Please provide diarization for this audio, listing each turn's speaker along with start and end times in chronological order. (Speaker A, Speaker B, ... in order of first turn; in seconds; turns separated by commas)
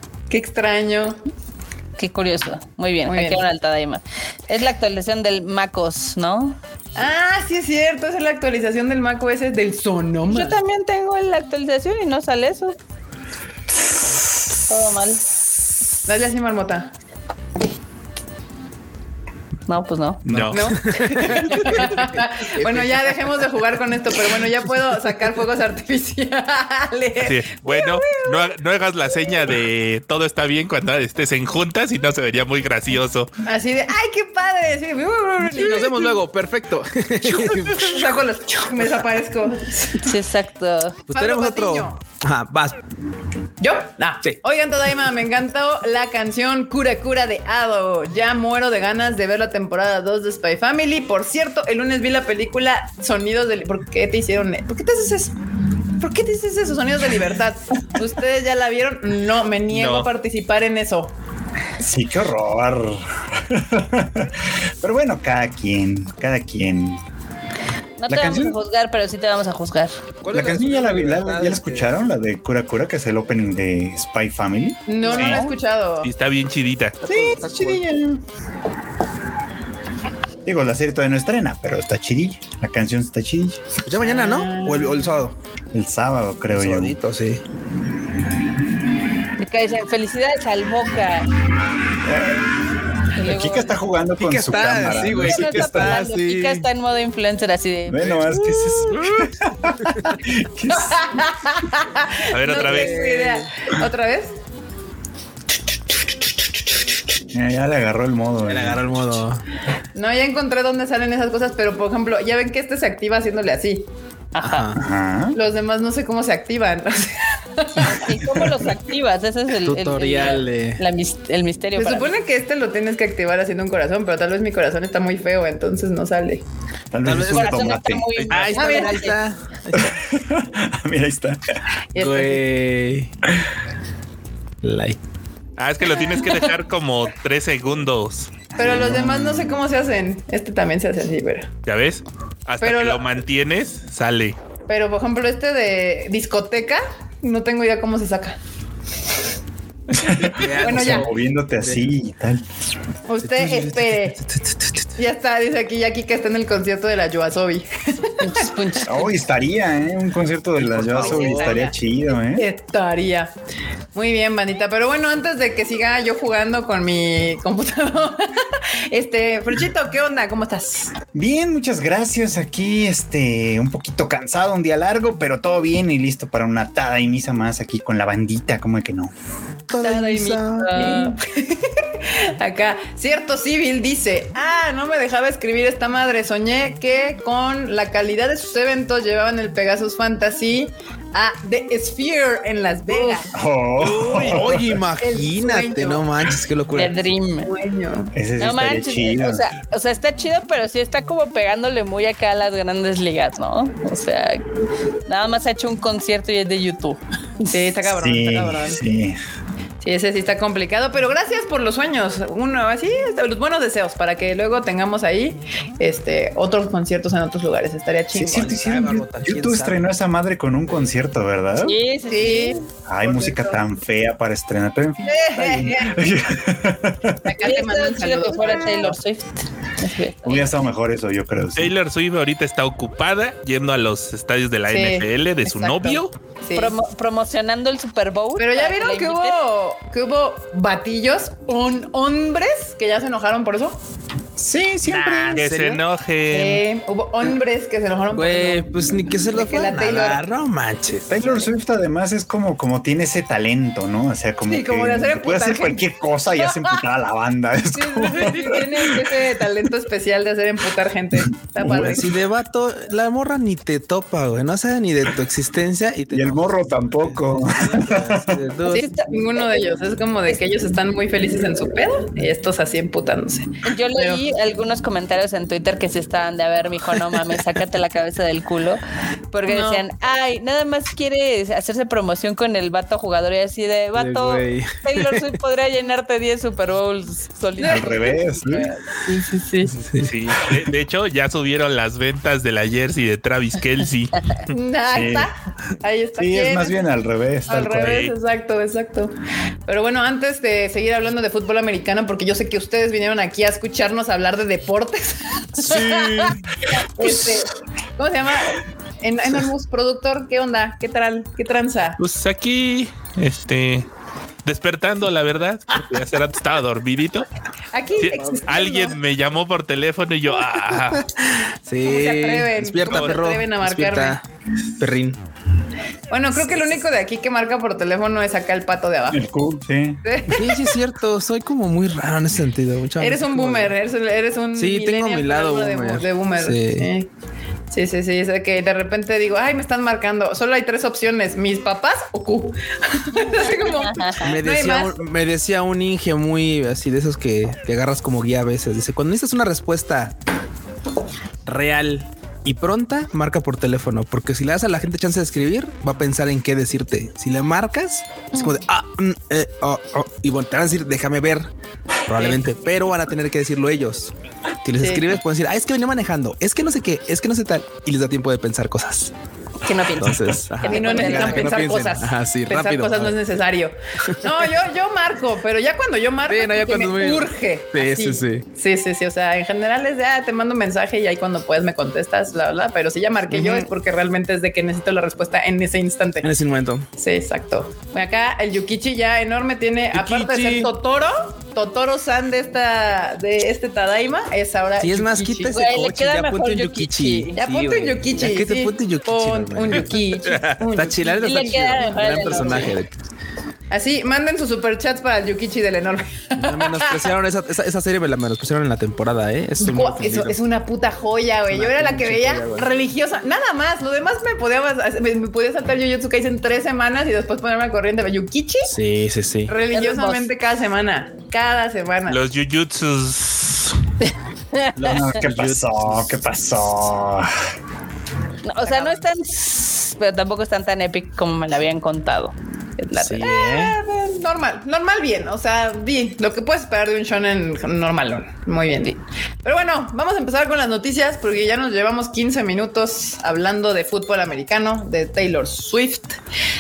Speaker A: 0.3-1.2, Speaker B: 2.0-6.6, Speaker A: 3.1-3.4, Speaker A: 7.0-10.6, Speaker B: 10.3-12.8, Speaker B: 14.7-15.2, Speaker A: 16.1-16.9, Speaker B: 19.7-20.2, Speaker C: 20.3-20.6, Speaker D: 20.3-23.2, Speaker A: 20.5-28.5, Speaker C: 27.2-33.3, Speaker A: 33.5-36.2, Speaker D: 35.5-38.0, Speaker A: 37.2-40.1, Speaker B: 40.0-41.1, Speaker D: 41.1-42.8, Speaker A: 41.1-42.0, Speaker A: 43.6-55.4, Speaker A: 56.0-61.1, Speaker C: 59.7-60.1, Speaker E: 61.8-67.0, Speaker B: 68.0-70.0, Speaker E: 68.1-68.6, Speaker D: 70.2-72.0, Speaker E: 70.3-75.4, Speaker A: 74.9-76.1, Speaker B: 75.1-75.5, Speaker C: 75.2-75.4, Speaker C: 76.0-77.0, Speaker D: 77.0-77.8, Speaker E: 77.1-78.2, Speaker E: 80.5-83.7, Speaker D: 83.8-85.3, Speaker A: 84.0-85.2, Speaker E: 85.7-87.0, Speaker D: 86.5-87.4, Speaker B: 89.4-91.3, Speaker E: 92.0-92.5, Speaker B: 93.1-93.8, Speaker E: 93.2-96.0, Speaker D: 94.2-96.7, Speaker B: 95.1-98.2, Speaker E: 97.9-101.1, Speaker D: 98.1-100.1, Speaker A: 100.7-104.3, Speaker C: 102.3-103.0, Speaker D: 102.5-103.5, Speaker E: 107.3-109.1, Speaker D: 108.5-109.4, Speaker A: 110.0-113.9, Speaker B: 114.3-114.7, Speaker D: 114.4-114.8, Speaker E: 114.7-115.4, Speaker A: 115.3-118.2, Speaker B: 117.8-122.1, Speaker D: 119.6-120.8, Speaker A: 121.8-126.5, Speaker E: 126.9-128.1, Speaker D: 127.0-127.6, Speaker B: 127.2-129.2, Speaker C: 128.2-128.6, Speaker D: 128.3-129.4, Speaker A: 128.6-129.0, Speaker E: 129.7-131.4, Speaker A: 131.9-132.4, Speaker D: 132.0-133.1, Speaker D: 134.6-135.0, Speaker C: 135.6-138.3, Speaker A: 135.8-136.5, Speaker E: 138.6-139.6, Speaker A: 138.6-141.5, Speaker C: 141.7-144.4, Speaker A: 142.6-143.1, Speaker A: 144.7-148.4, Speaker E: 149.9-152.4, Speaker D: 150.1-151.9, Speaker A: 150.6-151.1, Speaker A: 153.1-154.2, Speaker D: 153.2-155.0, Speaker A: 155.0-158.5, Speaker B: 158.2-159.1, Speaker E: 158.8-162.5, Speaker D: 160.6-161.7, Speaker A: 161.0-163.3, Speaker A: 163.9-170.9, Speaker E: 171.1-179.1, Speaker D: 179.7-181.0, Speaker A: 179.8-193.3, Speaker B: 179.8-181.2, Speaker E: 193.3-194.8, Speaker D: 193.8-197.0, Speaker A: 195.0-196.1, Speaker B: 196.7-197.5, Speaker A: 197.4-198.1, Speaker E: 198.1-199.4, Speaker B: 198.4-204.4, Speaker B: 205.1-207.6, Speaker A: 207.5-208.8, Speaker E: 207.8-209.2, Speaker A: 209.8-218.6, Speaker E: 218.1-221.8, Speaker D: 218.3-219.9, Speaker B: 221.6-222.6, Speaker A: 222.1-223.6, Speaker E: 222.9-227.3, Speaker A: 225.0-226.0, Speaker A: 227.2-229.0, Speaker B: 227.4-230.6, Speaker E: 230.2-231.7, Speaker C: 231.6-236.1, Speaker A: 234.7-236.7, Speaker B: 236.6-239.4, Speaker A: 238.4-243.8, Speaker E: 244.4-245.5, Speaker A: 244.9-245.6, Speaker D: 245.3-245.8, Speaker C: 245.3-246.6, Speaker A: 246.3-250.2, Speaker D: 248.1-251.4, Speaker E: 251.1-259.2, Speaker A: 254.5-255.8, Speaker A: 256.4-256.8, Speaker A: 257.7-262.2, Speaker D: 261.6-268.9, Speaker E: 261.7-262.0, Speaker E: 266.1-268.4, Speaker A: 268.7-274.2, Speaker B: 273.6-278.8, Speaker B: 279.3-288.7, Speaker A: 279.5-279.9, Speaker D: 283.9-285.4, Speaker A: 287.6-289.7, Speaker E: 287.7-288.7, Speaker D: 289.7-290.2, Speaker C: 290.0-294.5, Speaker A: 294.5-296.8, Speaker E: 294.9-295.3, Speaker E: 296.2-298.1, Speaker A: 297.5-299.1, Speaker C: 297.7-298.1, Speaker A: 299.7-312.0, Speaker C: 312.0-313.9, Speaker C: 314.4-317.3, Speaker A: 317.7-319.0, Speaker C: 318.0-321.0, Speaker D: 320.8-324.2, Speaker A: 321.8-324.2, Speaker C: 322.9-323.2, Speaker D: 324.8-325.2, Speaker A: 326.1-329.2, Speaker E: 329.1-330.0, Speaker A: 330.0-330.8, Speaker D: 330.3-333.8, Speaker A: 333.0-337.1, Speaker D: 334.6-336.9, Speaker A: 337.7-345.0, Speaker B: 343.4-344.3, Speaker D: 344.2-350.1, Speaker D: 351.4-361.5, Speaker D: 362.1-364.1, Speaker D: 364.6-369.1, Speaker A: 364.8-365.2, Speaker B: 369.6-371.5, Speaker D: 370.0-373.2, Speaker A: 370.6-386.3, Speaker D: 374.1-374.4, Speaker D: 376.3-378.4, Speaker D: 383.3-383.7, Speaker D: 386.2-386.9, Speaker A: 387.0-395.7, Speaker D: 389.9-390.7, Speaker D: 394.8-402.9, Speaker B: 395.5-397.4, Speaker A: 397.4-402.7, Speaker B: 401.2-402.8, Speaker A: 403.7-407.1, Speaker D: 406.4-410.4, Speaker A: 409.6-418.7, Speaker D: 411.5-412.7, Speaker D: 418.6-419.6, Speaker A: 419.5-422.2, Speaker B: 419.7-420.3, Speaker C: 422.1-423.8, Speaker B: 424.1-425.0, Speaker D: 424.8-426.1, Speaker E: 424.8-427.3, Speaker B: 428.4-433.3, Speaker A: 428.6-429.0, Speaker D: 433.0-433.8, Speaker A: 433.2-446.2